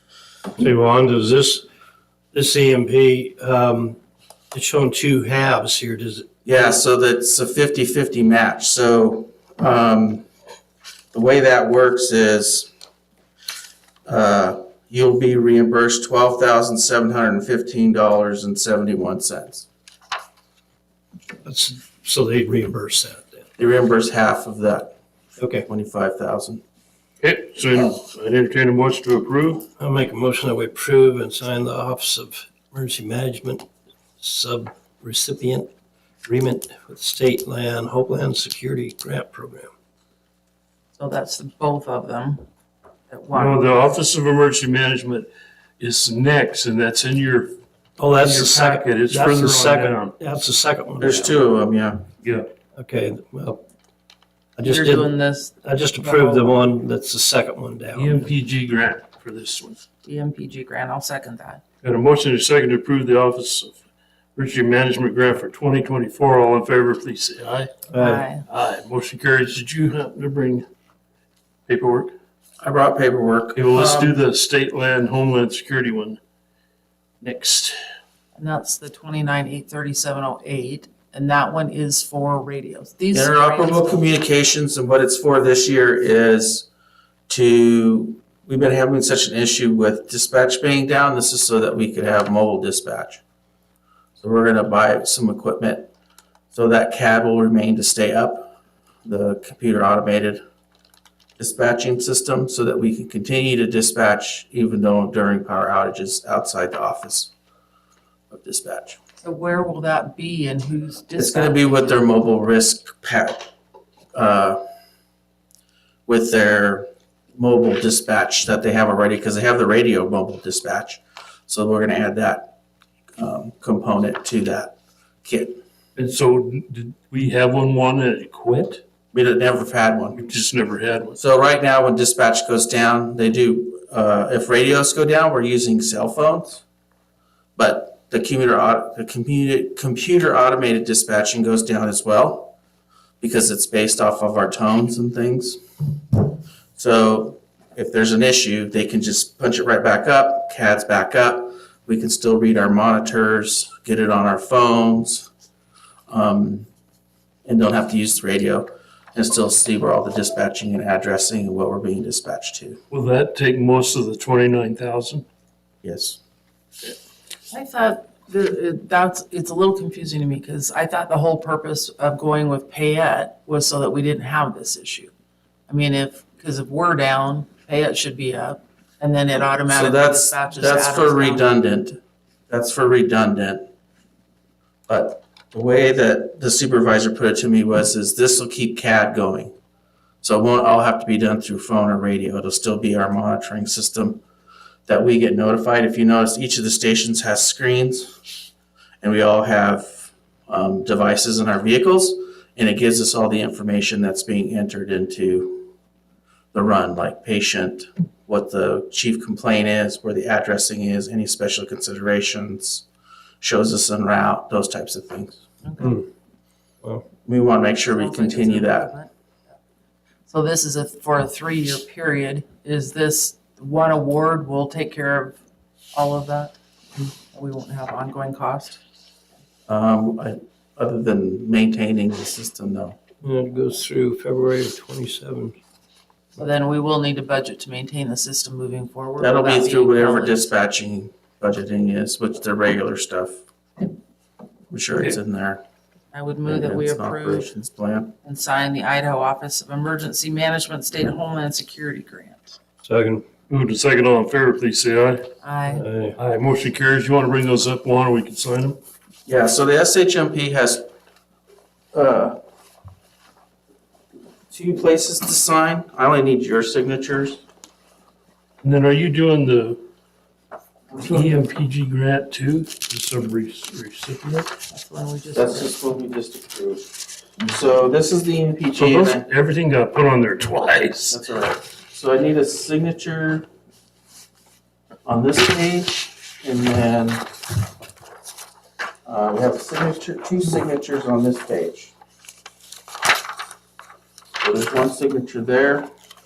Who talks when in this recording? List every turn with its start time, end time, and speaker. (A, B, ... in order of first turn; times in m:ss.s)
0:00.6-0:01.6 A
0:02.3-0:04.0 A
0:04.5-0:06.3 A
0:06.4-0:10.3 B
0:11.1-0:12.7 B
0:14.0-0:19.7 B
0:21.4-0:23.4 A
0:23.6-0:24.9 B
0:25.4-0:25.6 A
0:25.6-0:26.6 B
0:27.2-0:29.6 C
0:29.8-0:33.7 A
0:34.2-0:35.7 A
0:36.2-0:39.7 A
0:41.0-0:42.4 D
0:43.1-0:43.9 D
0:43.3-0:47.6 C
0:48.0-0:51.3 A
0:48.1-0:50.1 C
0:51.0-0:52.0 B
0:52.2-0:52.5 C
0:52.8-0:53.6 A
0:54.6-0:55.1 A
0:54.6-0:56.7 D
0:55.6-0:58.3 A
0:57.9-0:59.8 C
1:00.0-1:01.6 D
1:01.8-1:03.8 C
1:04.4-1:07.8 C
1:07.9-1:08.3 A
1:08.0-1:08.4 D
1:08.5-1:10.6 C
1:11.7-1:12.1 C
1:12.6-1:14.2 B
1:13.5-1:16.2 C
1:17.2-1:17.8 C
1:18.4-1:24.0 D
1:23.1-1:26.7 B
1:27.3-1:33.2 B
1:34.2-1:35.9 B
1:36.5-1:38.5 B
1:39.0-1:40.4 B
1:41.4-1:47.3 B
1:48.3-1:49.0 B
1:49.2-1:51.6 D
1:51.2-1:53.4 B
1:54.1-1:54.6 B
1:56.0-2:02.5 B
2:03.2-2:05.6 B
2:06.0-2:08.8 C
2:09.1-2:10.2 B
2:10.1-2:11.2 C
2:11.2-2:16.6 B
2:17.6-2:22.5 B
2:23.2-2:25.6 B
2:26.8-2:35.3 B
2:36.1-2:36.7 B
2:37.4-2:42.8 B
2:42.9-2:45.2 C
2:45.8-2:46.2 B
2:47.5-2:55.1 D
2:55.7-3:01.5 D
2:59.6-3:03.6 B
3:04.9-3:09.5 B
3:10.2-3:14.2 B
3:14.9-3:18.1 B
3:19.0-3:25.7 B
3:26.5-3:32.8 B
3:33.4-3:35.4 B
3:35.6-3:36.0 D
3:37.2-3:38.9 B
3:37.9-3:39.1 D
3:40.3-3:45.4 D
3:45.9-3:48.8 D
3:49.7-3:53.0 B
3:53.2-3:55.6 A
3:56.4-4:00.4 D
3:59.2-4:03.4 B
4:04.7-4:05.6 B
4:06.1-4:07.5 D
4:06.4-4:08.1 B
4:08.2-4:12.6 D
4:12.8-4:13.2 A
4:13.5-4:15.2 C
4:15.4-4:15.8 D
4:15.7-4:16.2 A
4:16.2-4:18.8 C
4:19.2-4:20.8 B
4:21.9-4:22.4 B
4:24.5-4:27.4 B
4:28.6-4:29.8 C
4:31.0-4:34.5 C
4:34.6-4:35.7 D
4:35.3-4:36.8 B
4:37.4-4:39.2 B
4:38.8-4:41.2 C
4:41.1-4:43.5 B
4:45.0-4:47.3 B
4:49.0-4:51.9 B
4:54.4-4:55.9 B